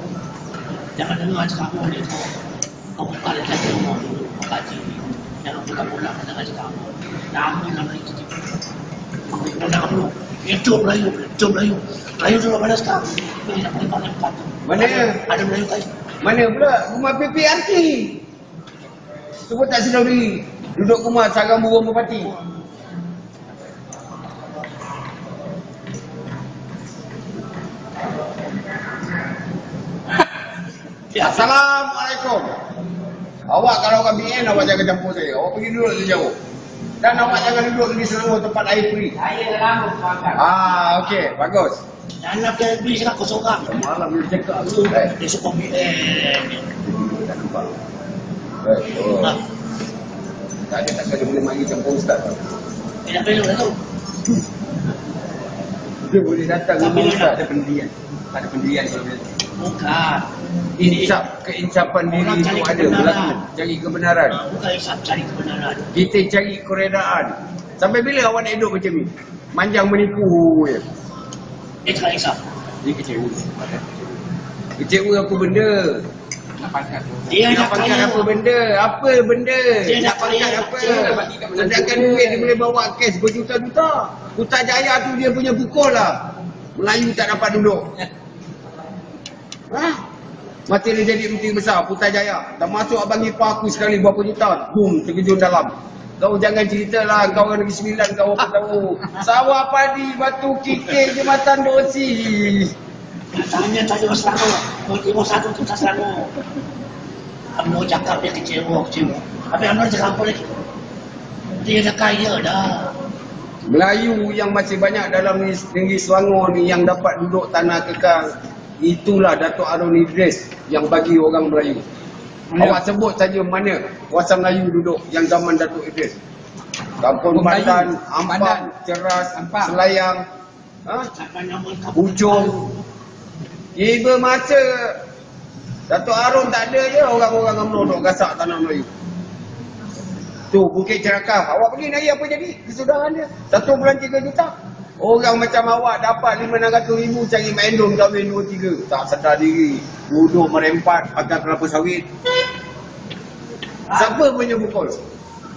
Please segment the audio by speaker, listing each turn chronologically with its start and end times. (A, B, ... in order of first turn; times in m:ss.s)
0:01.0-0:02.3 A
0:03.0-0:08.4 A
0:09.3-0:15.9 A
0:14.6-0:15.2 B
0:16.2-0:18.2 B
0:19.5-0:22.3 B
0:31.1-0:31.5 A
0:31.2-0:32.6 B
0:33.5-0:36.4 B
0:37.0-0:39.2 B
0:39.2-0:40.4 C
0:40.3-0:41.8 B
0:42.2-0:43.7 A
0:43.6-0:45.2 B
0:44.7-0:46.7 A
0:46.8-0:47.7 B
0:48.6-0:49.4 B
0:50.7-0:52.4 B
0:53.0-0:53.8 A
0:56.1-0:59.2 B
0:56.8-0:57.4 A
0:59.6-1:00.3 A
1:00.8-1:04.4 B
1:02.1-1:03.4 A
1:04.3-1:05.9 A
1:05.9-1:10.9 B
1:11.8-1:12.4 A
1:12.8-1:13.9 B
1:14.8-1:16.0 B
1:16.6-1:17.4 C
1:17.3-1:18.3 A
1:17.5-1:27.9 B
1:19.8-1:21.3 A
1:20.9-1:22.6 C
1:29.7-1:30.0 B
1:30.7-1:42.7 B
1:43.3-1:46.3 A
1:47.6-1:50.5 A
1:51.6-1:52.9 A
1:53.7-2:01.8 B
2:02.5-2:02.8 C
2:02.6-2:06.1 B
2:07.0-2:10.2 B
2:07.3-2:08.7 C
2:09.3-2:09.8 C
2:11.1-2:12.8 A
2:11.9-2:12.6 B
2:13.8-2:15.0 B
2:15.9-2:18.9 B
2:20.5-2:32.1 B
2:33.9-2:35.0 B